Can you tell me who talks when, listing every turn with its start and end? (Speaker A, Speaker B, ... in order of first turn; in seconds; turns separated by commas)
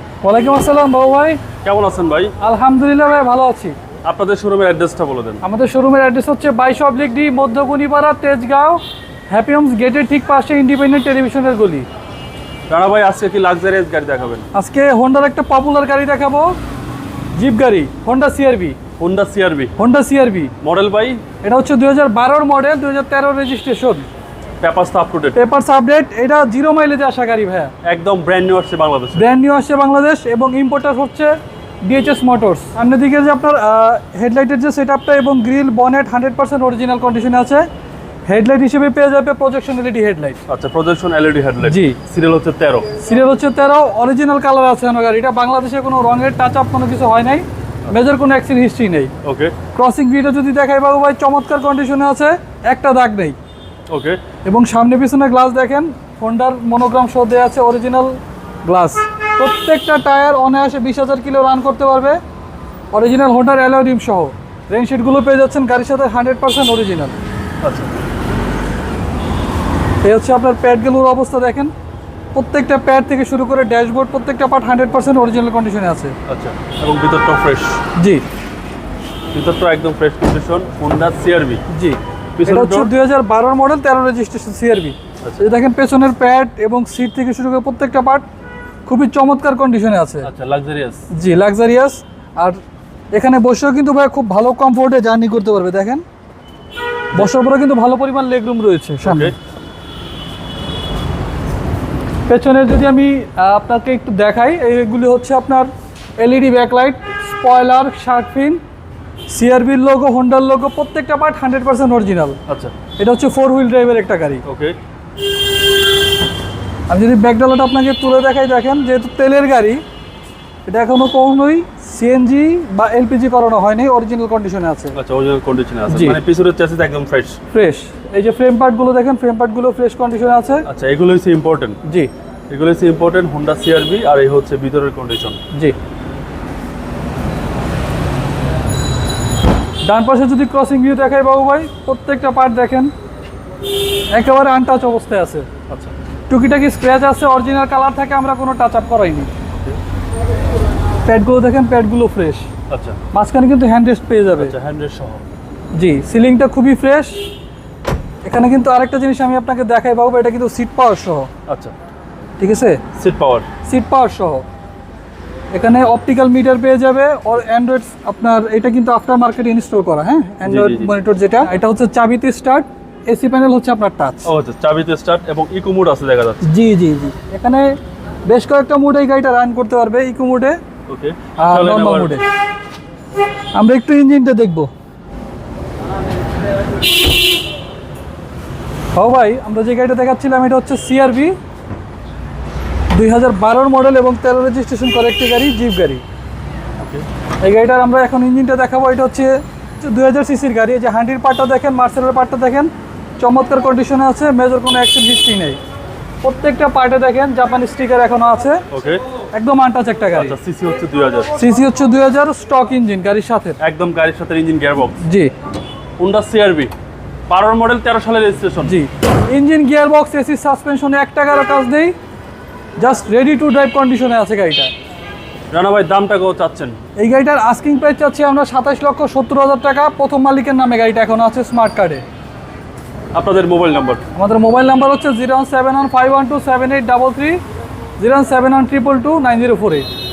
Speaker A: 0.2-1.4, Speaker B: 1.6-2.4, Speaker A: 2.4-3.8, Speaker B: 4.0-5.4, Speaker A: 5.4-11.9, Speaker B: 12.7-14.5, Speaker A: 14.5-16.6, Speaker A: 17.4-18.8, Speaker B: 19.0-19.7, Speaker A: 19.8-20.5, Speaker B: 20.6-21.2, Speaker A: 21.4-24.1, Speaker B: 24.6-25.4, Speaker A: 25.4-27.7, Speaker B: 27.8-29.3, Speaker A: 29.2-37.7, Speaker A: 38.3-40.4, Speaker B: 40.5-42.9, Speaker A: 41.6-42.0, Speaker A: 43.0-49.1, Speaker B: 49.2-49.5, Speaker A: 49.7-53.4, Speaker B: 53.9-54.2, Speaker A: 54.5-62.2, Speaker A: 62.9-67.2, Speaker B: 67.6-67.9, Speaker A: 70.0-71.7, Speaker A: 72.3-76.2, Speaker B: 76.3-77.8, Speaker A: 78.0-78.2, Speaker B: 79.3-81.6, Speaker A: 81.7-88.2, Speaker B: 82.4-82.9, Speaker A: 88.9-90.3, Speaker B: 90.2-91.1, Speaker A: 91.1-92.6, Speaker A: 93.1-96.0, Speaker A: 97.1-99.3, Speaker B: 99.0-99.3, Speaker A: 102.3-108.6, Speaker A: 109.3-112.4, Speaker B: 112.5-112.7, Speaker A: 113.0-114.5, Speaker B: 114.5-114.8, Speaker A: 116.9-119.8, Speaker A: 120.7-125.0, Speaker B: 125.0-127.4, Speaker A: 125.9-126.2, Speaker A: 127.5-130.7, Speaker B: 130.7-131.8, Speaker A: 131.8-132.1, Speaker B: 132.5-135.4, Speaker A: 139.8-142.9, Speaker A: 144.1-145.5, Speaker B: 145.7-145.9, Speaker A: 146.3-149.3, Speaker A: 151.1-152.5, Speaker B: 152.7-153.0, Speaker A: 153.1-154.5, Speaker B: 154.4-155.2, Speaker A: 155.8-157.3, Speaker A: 158.2-161.3, Speaker B: 161.5-161.7, Speaker A: 162.4-162.8, Speaker B: 162.9-163.5, Speaker A: 163.7-164.5, Speaker A: 165.5-174.3, Speaker B: 170.4-170.9, Speaker B: 174.2-176.4, Speaker A: 176.4-177.8, Speaker A: 178.3-180.6, Speaker B: 180.9-182.2, Speaker A: 181.4-182.3, Speaker A: 183.5-184.7, Speaker A: 188.9-191.3, Speaker A: 192.9-196.0, Speaker B: 196.8-197.1, Speaker A: 197.4-205.6, Speaker A: 206.2-208.6, Speaker B: 208.7-209.0, Speaker A: 209.3-210.4, Speaker B: 210.2-211.4, Speaker A: 211.4-213.6, Speaker B: 213.6-215.0, Speaker A: 215.0-215.3, Speaker B: 216.0-216.7, Speaker B: 217.3-218.8, Speaker A: 218.7-221.9, Speaker A: 222.8-224.7, Speaker B: 225.5-226.8, Speaker A: 227.0-232.0, Speaker B: 233.1-234.0, Speaker A: 234.2-237.4, Speaker A: 238.0-239.9